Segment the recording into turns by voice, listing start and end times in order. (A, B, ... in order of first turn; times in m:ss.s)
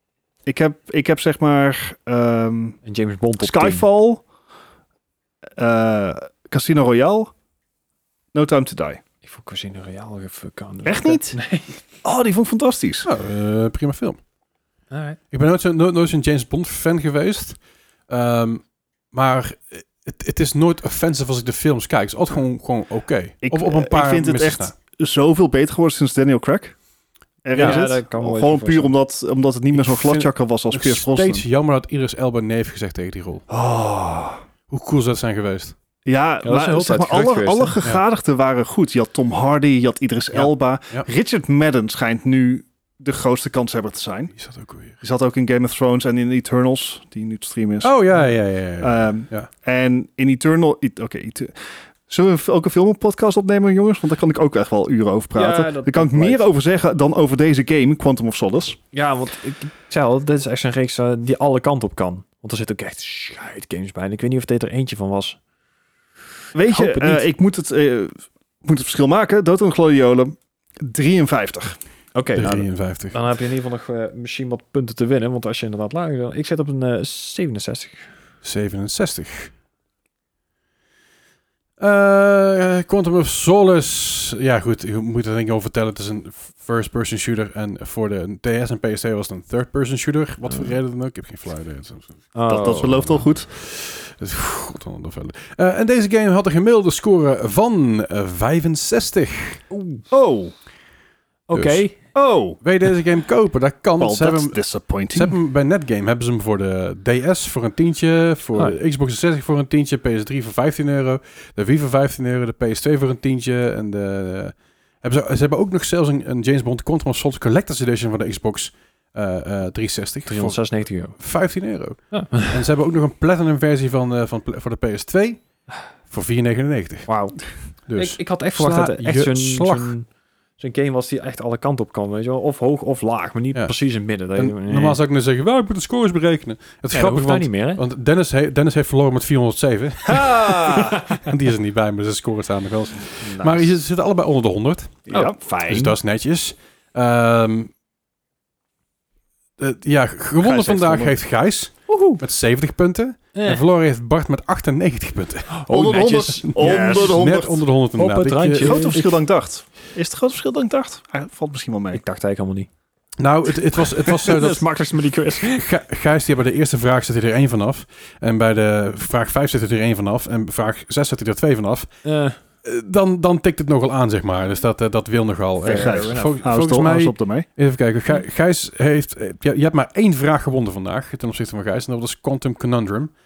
0:00.5-0:02.8 A
0:02.8-0:03.8 B
0:03.4-0:04.2 A
0:05.6-0:07.3 A
0:08.3-0:09.0 A
0:09.2-0:11.8 B
0:10.8-0:11.4 A
0:12.0-0:13.1 A
0:13.0-0:14.2 C
0:14.9-0:15.2 B
0:15.3-0:17.6 C
0:18.1-0:24.7 C
0:23.4-0:26.8 A
0:27.4-0:31.4 A
0:27.5-0:27.8 C
0:27.5-0:28.9 B
0:29.7-0:33.5 C
0:33.5-0:34.4 A
0:34.7-0:35.7 C
0:36.0-0:44.3 A
0:36.4-0:37.8 B
0:40.3-0:41.1 C
0:44.4-0:45.0 C
0:45.0-0:48.0 A
0:47.8-0:49.5 C
0:48.8-0:58.8 A
0:55.4-0:56.4 B
0:58.9-1:05.4 B
1:06.5-1:08.1 A
1:06.7-1:07.3 B
1:08.6-1:11.8 A
1:12.2-1:18.1 B
1:12.4-1:13.2 C
1:18.4-1:19.5 C
1:21.8-1:32.3 C
1:32.3-1:33.2 B
1:32.5-1:33.5 A
1:32.9-1:39.6 C
1:39.7-1:40.0 B
1:40.1-1:40.5 A
1:41.5-1:42.0 B
1:41.5-1:41.9 C
1:42.1-1:42.6 A
1:42.6-1:44.6 C
1:44.0-1:45.4 A
1:45.1-2:05.4 C
2:00.3-2:01.2 B
2:02.1-2:02.6 B
2:06.1-2:07.1 C
2:07.1-2:10.1 B
2:07.9-2:09.9 C
2:10.6-2:15.0 B
2:14.4-2:25.1 C
2:16.9-2:17.8 B
2:20.1-2:21.0 A
2:20.7-2:21.3 B
2:23.2-2:23.7 B
2:25.1-2:25.4 A
2:25.1-2:26.0 B
2:25.7-2:27.7 C
2:29.6-2:35.6 C
2:30.4-2:31.2 B
2:31.9-2:32.2 B
2:33.4-2:33.6 B
2:35.5-2:37.3 B
2:35.7-2:37.6 A
2:36.4-2:39.0 C
2:37.9-2:39.2 B
2:38.6-2:42.0 A
2:41.9-2:42.7 B
2:43.2-2:44.7 C
2:43.7-2:45.7 B
2:45.4-2:51.9 C
2:52.0-2:52.4 B
2:52.6-3:03.1 C
2:55.6-2:56.4 B
2:55.7-2:57.5 A